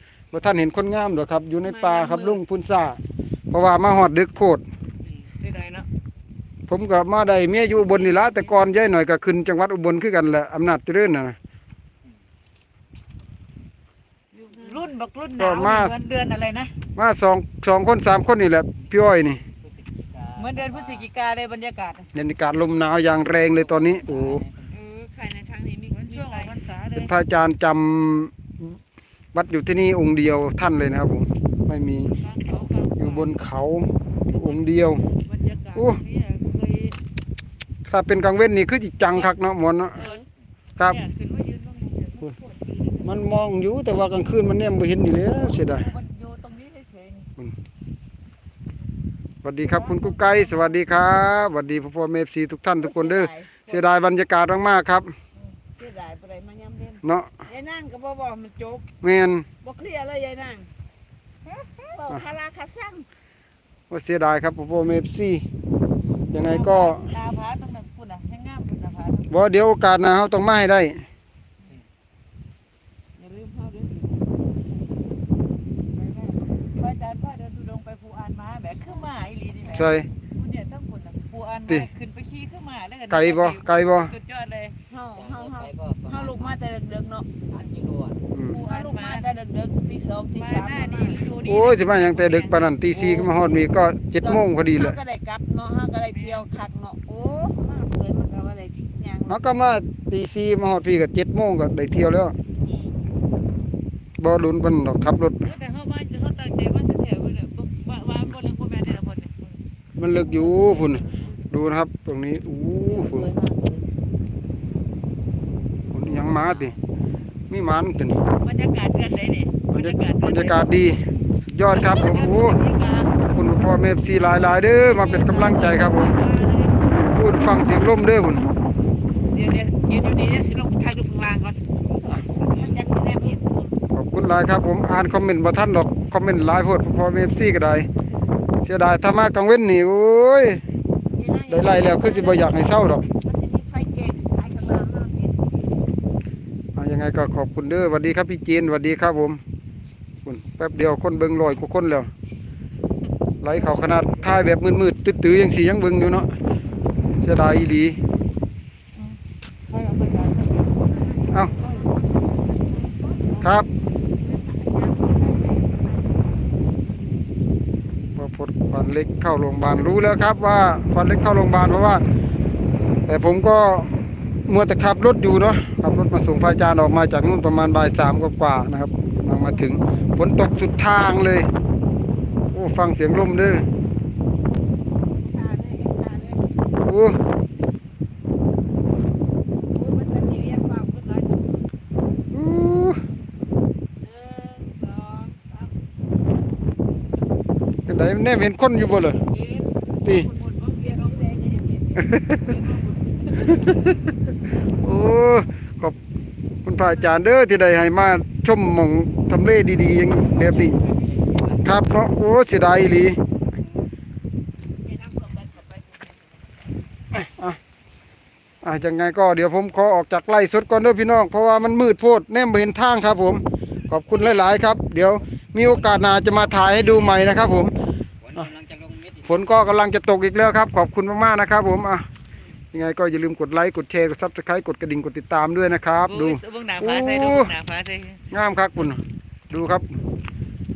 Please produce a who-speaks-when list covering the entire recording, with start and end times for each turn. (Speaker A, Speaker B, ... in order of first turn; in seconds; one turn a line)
Speaker A: 0.3-3.0
Speaker B: 1.6-2.4
Speaker A: 3.5-4.6
Speaker C: 5.4-5.9
Speaker A: 6.7-11.4
Speaker C: 8.0-8.3
Speaker C: 14.3-16.7
Speaker A: 15.4-16.0
Speaker A: 16.9-19.4
Speaker D: 19.5-21.1
Speaker C: 20.4-22.1
Speaker A: 22.1-24.4
Speaker D: 23.6-24.7
Speaker B: 24.7-26.6
Speaker C: 25.9-27.1
Speaker A: 26.9-28.7
Speaker A: 29.3-32.1
Speaker C: 32.1-33.3
Speaker A: 33.0-35.0
Speaker C: 34.3-34.6
Speaker C: 35.1-37.0
Speaker A: 35.7-36.0
Speaker A: 37.8-40.0
Speaker C: 40.0-40.2
Speaker C: 40.8-43.1
Speaker A: 43.0-45.9
Speaker C: 45.4-47.3
Speaker A: 49.4-55.1
Speaker C: 49.6-50.8
Speaker B: 52.8-53.6
Speaker B: 55.8-58.9
Speaker A: 59.0-59.5
Speaker B: 59.6-60.7
Speaker B: 61.5-63.1
Speaker A: 63.9-65.4
Speaker A: 66.3-67.1
Speaker C: 66.4-69.3
Speaker A: 69.3-71.1
Speaker B: 73.2-74.3
Speaker B: 76.0-76.3
Speaker C: 76.7-84.8
Speaker A: 79.7-80.1
Speaker A: 83.1-84.1
Speaker B: 84.9-87.4
Speaker D: 85.2-86.5
Speaker D: 87.5-88.2
Speaker A: 88.3-88.6
Speaker C: 88.5-89.3
Speaker B: 88.5-91.3
Speaker C: 90.3-92.7
Speaker A: 91.4-95.0
Speaker B: 94.2-99.4
Speaker C: 96.1-96.5
Speaker A: 99.3-102.3
Speaker A: 104.2-105.5
Speaker C: 105.4-109.6
Speaker A: 110.0-113.3
Speaker B: 110.2-111.2
Speaker B: 112.9-113.9
Speaker A: 115.9-116.7
Speaker A: 117.5-118.2
Speaker C: 118.4-120.5
Speaker A: 119.7-122.6
Speaker C: 121.7-123.2
Speaker A: 123.2-126.1
Speaker C: 124.7-126.9
Speaker A: 127.0-128.5
Speaker C: 129.3-131.6
Speaker B: 132.4-133.4
Speaker A: 133.9-137.9
Speaker A: 138.6-140.6
Speaker B: 141.1-145.5
Speaker A: 141.5-143.0
Speaker A: 146.7-149.4
Speaker A: 150.2-152.1
Speaker A: 153.4-156.3
Speaker A: 157.2-158.0
Speaker C: 159.7-160.9
Speaker B: 161.3-163.3
Speaker A: 163.4-163.7
Speaker B: 164.2-166.4
Speaker A: 168.1-172.1
Speaker A: 173.1-181.5
Speaker A: 182.5-183.7
Speaker B: 185.1-186.5
Speaker A: 186.8-187.2
Speaker B: 189.7-191.7
Speaker A: 192.3-193.0
Speaker B: 194.0-195.8
Speaker A: 197.9-199.2
Speaker B: 199.2-203.7
Speaker A: 200.0-200.3
Speaker A: 202.0-202.4
Speaker A: 203.5-203.9
Speaker A: 204.8-205.9
Speaker A: 206.6-210.8
Speaker A: 211.5-213.2
Speaker C: 215.0-215.7
Speaker A: 217.1-217.6
Speaker A: 218.6-227.7
Speaker D: 228.2-229.3
Speaker A: 229.2-232.1
Speaker A: 232.7-237.5
Speaker C: 236.1-238.2
Speaker A: 238.3-239.9